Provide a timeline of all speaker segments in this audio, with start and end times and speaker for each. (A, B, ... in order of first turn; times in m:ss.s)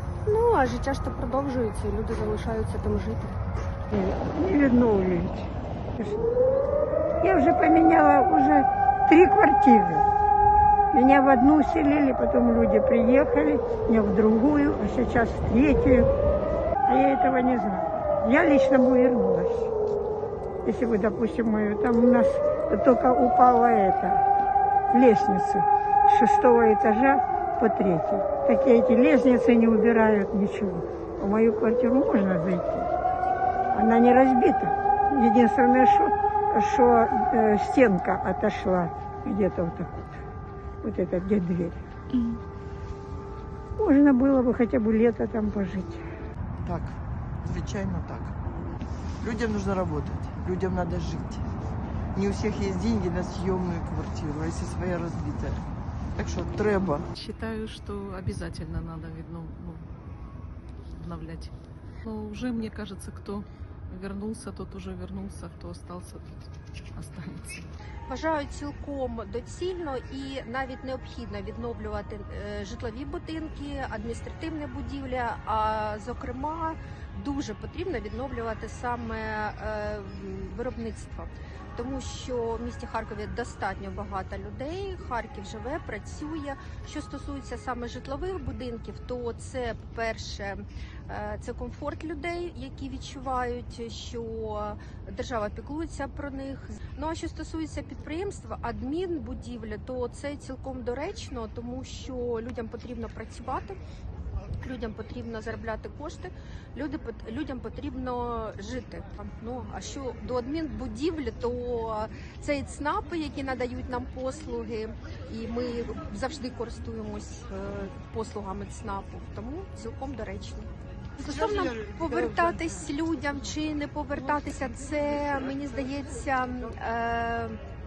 0:00.3-0:00.6 A
0:00.6-0:03.3 B
0:03.9-0:06.2 C
0:07.2-0:10.0 C
0:10.9-0:16.1 C
0:16.8-0:19.7 C
0:20.6-0:24.2 C
0:24.9-0:32.9 C
0:33.7-0:40.2 C
0:40.8-0:41.8 C
0:43.8-0:46.0 C
0:46.6-0:48.4 D
0:49.2-0:51.4 D
0:52.1-0:57.1 D
0:57.1-0:59.9 E
1:00.9-1:07.7 E
1:08.1-1:43.8 A
1:44.6-2:07.6 A